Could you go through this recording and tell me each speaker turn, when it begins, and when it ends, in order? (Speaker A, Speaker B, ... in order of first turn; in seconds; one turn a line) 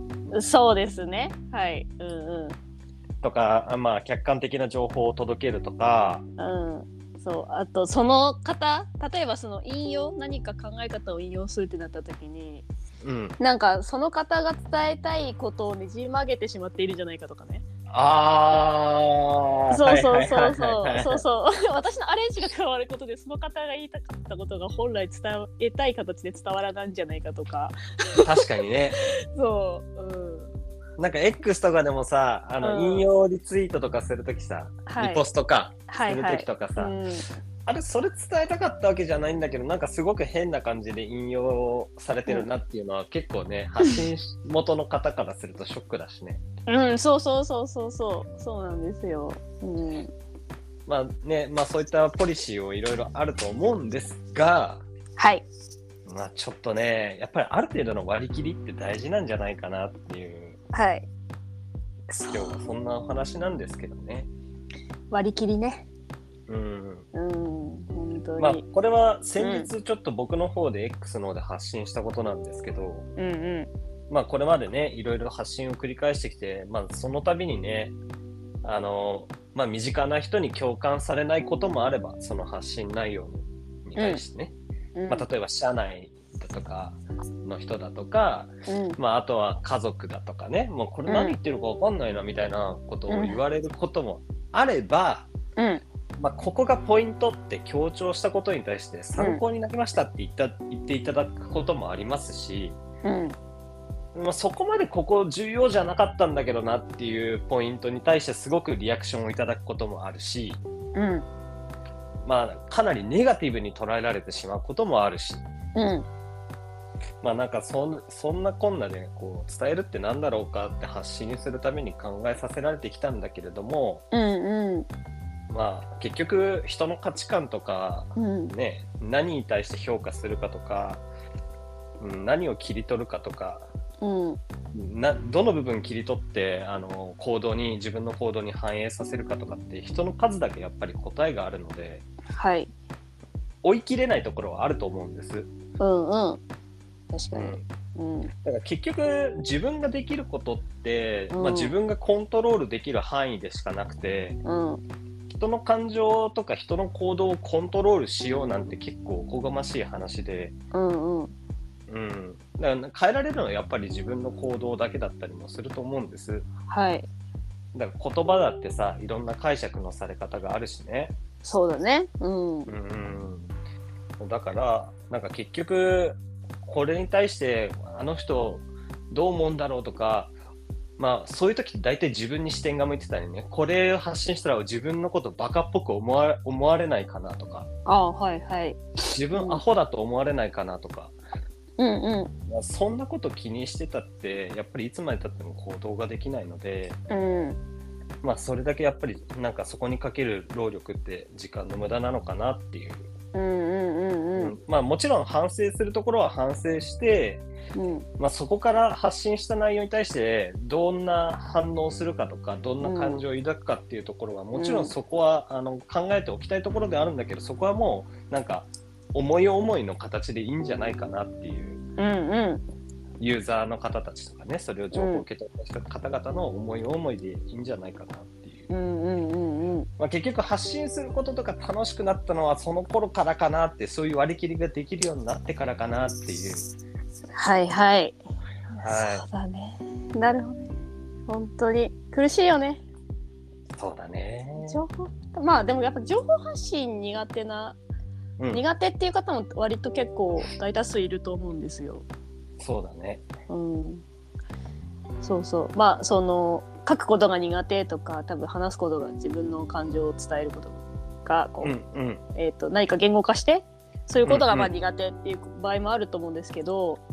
Speaker A: 0.3-2.6
Speaker B: 3.2-6.2
Speaker A: 6.4-12.6
Speaker B: 13.0-13.4
Speaker A: 13.4-17.6
Speaker B: 17.9-21.2
Speaker A: 19.7-28.2
Speaker B: 28.2-29.0
Speaker A: 29.3-30.5
Speaker B: 31.0-36.9
Speaker A: 32.6-33.0
Speaker A: 34.9-35.2
Speaker A: 35.9-37.2
Speaker B: 37.6-46.4
Speaker A: 46.7-50.1
Speaker B: 50.9-54.8
Speaker A: 55.2-55.4
Speaker B: 56.0-60.6
Speaker A: 60.7-61.1
Speaker A: 62.1-62.6
Speaker B: 62.3-64.3
Speaker A: 65.1-65.9
Speaker B: 66.5-67.1
Speaker A: 67.1-68.6
Speaker B: 68.4-73.1
Speaker A: 69.4-69.7
Speaker A: 73.2-73.7
Speaker B: 74.1-78.0
Speaker B: 78.6-84.5
Speaker A: 84.0-84.2
Speaker A: 84.9-85.3
Speaker B: 85.1-95.3
Speaker A: 88.7-89.0
Speaker A: 91.1-91.4
Speaker A: 93.1-93.4
Speaker A: 95.6-95.8
Speaker B: 96.2-102.8
Speaker A: 99.2-99.4
Speaker A: 103.0-103.3
Speaker B: 104.1-110.6
Speaker A: 110.9-111.2
Speaker B: 112.2-115.4
Speaker A: 115.7-116.0
Speaker B: 117.2-124.0
Speaker A: 124.1-124.9
Speaker B: 125.5-131.0
Speaker A: 128.2-128.5
Speaker B: 132.0-133.7
Speaker A: 134.0-134.4
Speaker B: 134.7-142.0
Speaker A: 142.3-142.7
Speaker B: 143.6-145.5
Speaker A: 145.8-146.4
Speaker A: 147.1-148.3
Speaker B: 147.3-147.6
Speaker B: 148.4-154.4
Speaker A: 151.3-151.7
Speaker A: 154.4-154.8
Speaker B: 155.3-160.5
Speaker A: 160.7-161.3
Speaker B: 161.9-166.5
Speaker A: 166.7-167.1
Speaker B: 167.7-171.1
Speaker A: 171.4-172.7
Speaker B: 172.7-173.5
Speaker B: 174.2-180.3
Speaker B: 181.0-187.7
Speaker A: 187.8-189.6
Speaker B: 189.1-191.2
Speaker A: 191.8-192.3
Speaker B: 192.5-197.0
Speaker A: 197.1-197.6
Speaker B: 198.2-203.1
Speaker A: 203.3-204.6
Speaker B: 204.4-207.4
Speaker A: 207.7-208.1
Speaker B: 208.2-221.8
Speaker A: 212.8-213.2
Speaker A: 214.5-214.9
Speaker A: 222.0-222.6
Speaker B: 223.2-228.7
Speaker A: 224.9-225.2
Speaker A: 228.7-229.9
Speaker B: 230.0-236.7
Speaker A: 237.3-238.2
Speaker A: 238.8-240.7
Speaker B: 238.8-239.2
Speaker A: 241.3-242.8
Speaker B: 243.8-244.8
Speaker A: 244.5-247.8
Speaker A: 248.5-252.0
Speaker B: 252.6-253.3
Speaker A: 253.5-254.0
Speaker A: 255.2-261.7
Speaker B: 261.6-262.2
Speaker A: 262.3-267.0
Speaker B: 264.2-264.7